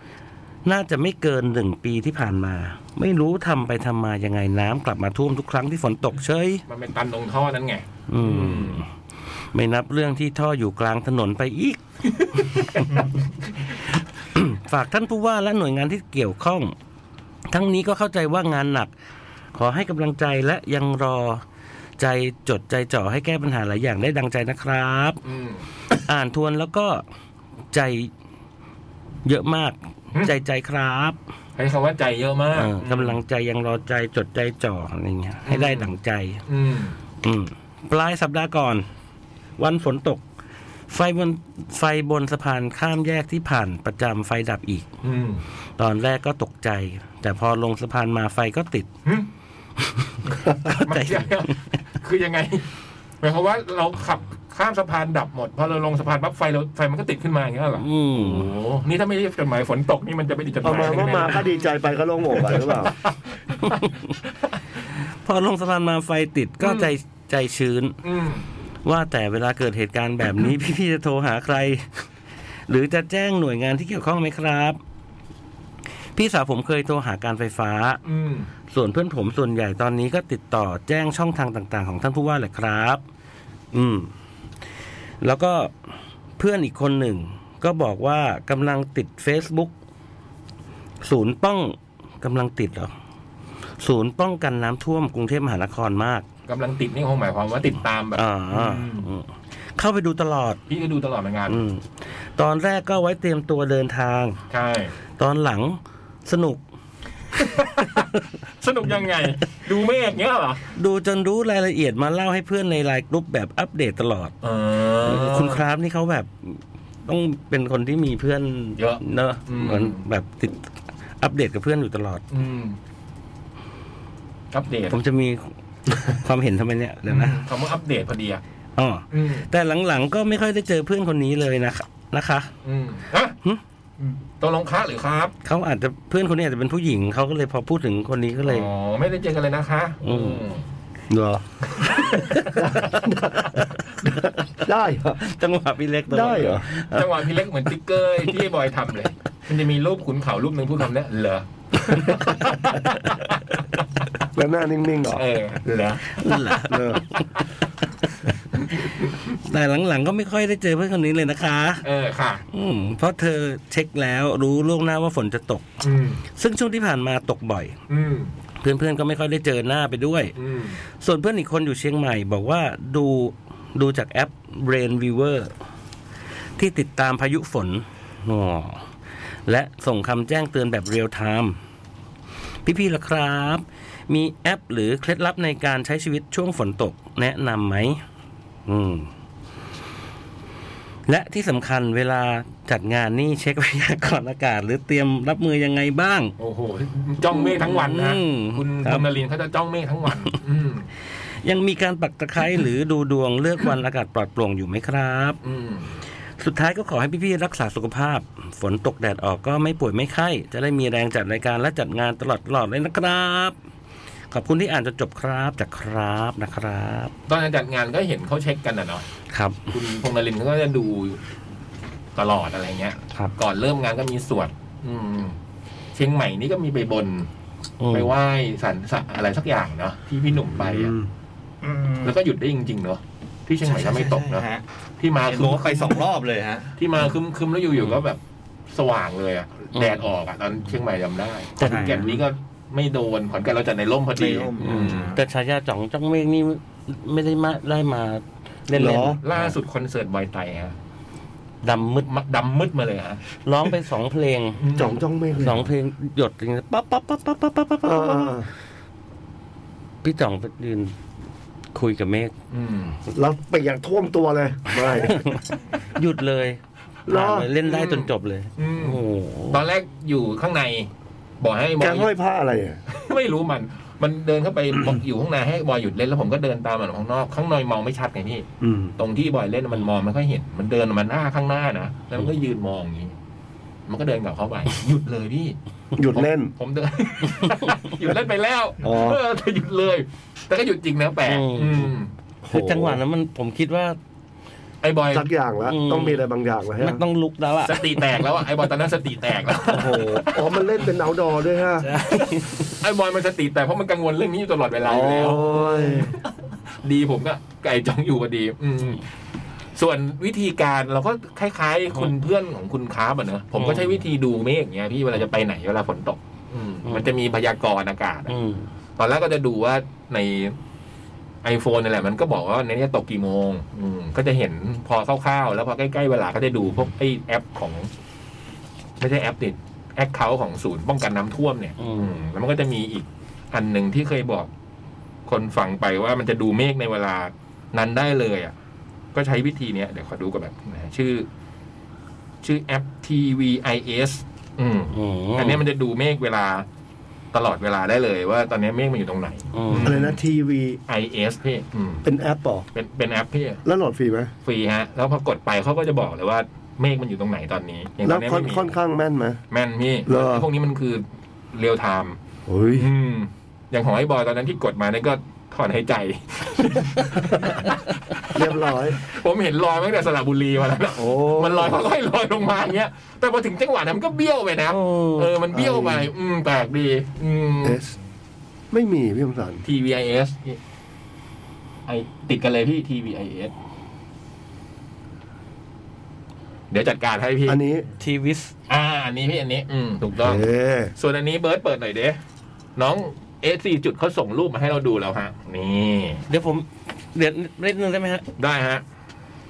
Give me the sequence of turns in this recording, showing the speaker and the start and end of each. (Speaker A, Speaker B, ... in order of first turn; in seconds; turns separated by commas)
Speaker A: 0.6-6.6, Speaker B: 6.7-8.8, Speaker A: 8.1-8.9, Speaker A: 9.5-13.0, Speaker B: 12.3-12.8, Speaker A: 14.3-16.7, Speaker A: 17.5-18.9, Speaker A: 19.5-21.4, Speaker A: 22.0-25.2, Speaker B: 25.2-25.6, Speaker A: 26.0-27.0, Speaker A: 27.7-28.1, Speaker A: 29.2-31.1, Speaker B: 31.6-33.2, Speaker A: 32.5-36.4, Speaker B: 35.5-35.9, Speaker B: 36.5-37.0, Speaker A: 37.2-38.9, Speaker A: 39.6-40.2, Speaker A: 40.9-44.9, Speaker B: 45.0-45.4, Speaker A: 45.8-48.9, Speaker A: 49.8-51.5, Speaker B: 50.7-52.7, Speaker B: 53.2-61.5, Speaker A: 57.8-58.5, Speaker C: 60.6-62.9, Speaker B: 62.4-63.9, Speaker A: 63.6-64.1, Speaker A: 65.2-68.0, Speaker B: 66.6-66.9, Speaker B: 68.0-68.4, Speaker A: 68.8-72.0, Speaker A: 72.7-74.8, Speaker A: 76.1-78.0, Speaker B: 78.0-78.5, Speaker A: 78.7-83.0, Speaker A: 83.7-84.1, Speaker A: 85.2-85.7, Speaker A: 86.4-89.7, Speaker A: 91.0-92.9, Speaker A: 93.8-96.2, Speaker B: 96.5-99.1, Speaker A: 98.1-100.6, Speaker B: 100.7-101.6, Speaker A: 101.5-104.4, Speaker B: 104.5-104.9, Speaker A: 105.2-106.6, Speaker B: 107.5-108.1, Speaker B: 108.6-110.6, Speaker A: 110.7-114.3, Speaker B: 114.4-115.6, Speaker A: 115.0-120.6, Speaker B: 118.8-120.0, Speaker A: 121.2-122.2, Speaker B: 122.3-122.8, Speaker B: 124.5-124.9, Speaker A: 124.9-127.4, Speaker B: 127.1-128.4, Speaker A: 128.8-132.5, Speaker B: 129.1-129.5, Speaker B: 132.6-133.3, Speaker B: 134.4-135.3, Speaker A: 135.4-138.7, Speaker B: 138.4-140.6, Speaker A: 140.0-140.5, Speaker C: 141.1-143.2, Speaker A: 142.2-142.6, Speaker B: 142.5-143.0, Speaker C: 144.0-145.2, Speaker A: 145.2-147.0, Speaker C: 146.1-146.7, Speaker B: 146.7-153.7, Speaker C: 154.3-155.2, Speaker B: 155.1-156.7, Speaker A: 156.2-157.2, Speaker C: 156.7-157.0, Speaker B: 158.6-159.1, Speaker A: 159.2-161.8, Speaker B: 161.8-162.4, Speaker A: 162.5-165.7, Speaker B: 165.8-166.2, Speaker A: 166.3-167.8, Speaker B: 167.9-168.3, Speaker A: 168.6-170.3, Speaker B: 170.4-170.8, Speaker A: 171.0-175.5, Speaker A: 176.6-178.9, Speaker A: 179.4-181.6, Speaker A: 182.6-188.0, Speaker A: 188.7-189.1, Speaker A: 191.1-196.3, Speaker B: 196.4-200.9, Speaker A: 197.3-199.1, Speaker A: 201.4-205.4, Speaker B: 205.4-205.9, Speaker A: 206.4-213.6, Speaker A: 214.3-217.1, Speaker B: 217.3-219.0, Speaker A: 219.3-219.7, Speaker B: 219.7-221.2, Speaker B: 222.2-225.3, Speaker B: 225.9-227.3, Speaker A: 227.8-228.1, Speaker B: 227.9-230.9, Speaker C: 230.6-231.1, Speaker D: 231.6-232.1, Speaker B: 232.0-234.5, Speaker D: 233.6-234.6, Speaker B: 235.0-236.1, Speaker D: 235.2-236.7, Speaker B: 236.8-245.1, Speaker A: 241.6-242.1, Speaker D: 241.6-242.1, Speaker D: 244.2-245.2, Speaker A: 244.6-249.5, Speaker C: 248.7-249.2, Speaker B: 249.2-250.7, Speaker A: 251.6-252.1, Speaker B: 252.1-253.2, Speaker A: 253.4-254.6, Speaker B: 254.6-255.0, Speaker C: 254.8-255.7, Speaker A: 255.4-258.3, Speaker C: 257.8-258.5, Speaker A: 260.0-260.9, Speaker A: 261.7-262.3, Speaker B: 262.5-263.0, Speaker C: 263.1-265.2, Speaker A: 265.0-265.4, Speaker A: 265.9-269.6, Speaker C: 267.1-267.5, Speaker B: 267.7-269.0, Speaker B: 269.5-270.9, Speaker B: 271.4-272.1, Speaker C: 271.8-272.8, Speaker B: 272.9-283.1, Speaker C: 278.6-278.9, Speaker B: 283.9-285.6, Speaker C: 285.9-286.5, Speaker B: 286.1-292.1, Speaker C: 288.8-289.2, Speaker A: 291.2-291.9, Speaker C: 292.4-293.0, Speaker A: 292.5-294.0, Speaker B: 294.8-295.3, Speaker C: 295.1-297.0, Speaker A: 295.6-296.2, Speaker A: 296.8-298.1, Speaker B: 297.6-300.2, Speaker C: 299.7-301.9, Speaker A: 301.8-302.7, Speaker B: 302.1-306.2, Speaker C: 304.8-306.2, Speaker B: 306.8-309.0, Speaker B: 309.8-318.3, Speaker A: 313.6-314.0, Speaker A: 318.3-318.7, Speaker B: 319.0-320.5, Speaker B: 321.4-327.9, Speaker B: 329.0-334.5, Speaker A: 331.8-332.1, Speaker B: 335.3-338.5, Speaker B: 339.1-341.3, Speaker B: 342.4-346.6, Speaker A: 344.9-345.6, Speaker B: 347.3-350.2, Speaker A: 349.5-350.0, Speaker C: 349.8-350.8, Speaker B: 350.9-352.1, Speaker C: 352.0-352.7, Speaker B: 352.7-353.6, Speaker C: 353.6-354.3, Speaker B: 354.4-358.7, Speaker C: 358.0-359.4, Speaker B: 359.5-362.2, Speaker C: 360.1-360.5, Speaker C: 362.5-362.9, Speaker B: 362.8-377.8, Speaker C: 368.3-369.0, Speaker C: 370.9-371.8, Speaker A: 374.7-375.3, Speaker C: 375.5-376.1, Speaker C: 377.6-378.0, Speaker C: 378.7-379.6, Speaker B: 379.6-380.6, Speaker B: 381.9-383.5, Speaker B: 386.7-387.6, Speaker C: 387.5-387.9, Speaker A: 388.0-388.5, Speaker B: 388.7-390.4, Speaker C: 390.2-390.9, Speaker B: 391.0-392.2, Speaker B: 392.8-396.2, Speaker A: 396.3-398.2, Speaker B: 398.4-398.8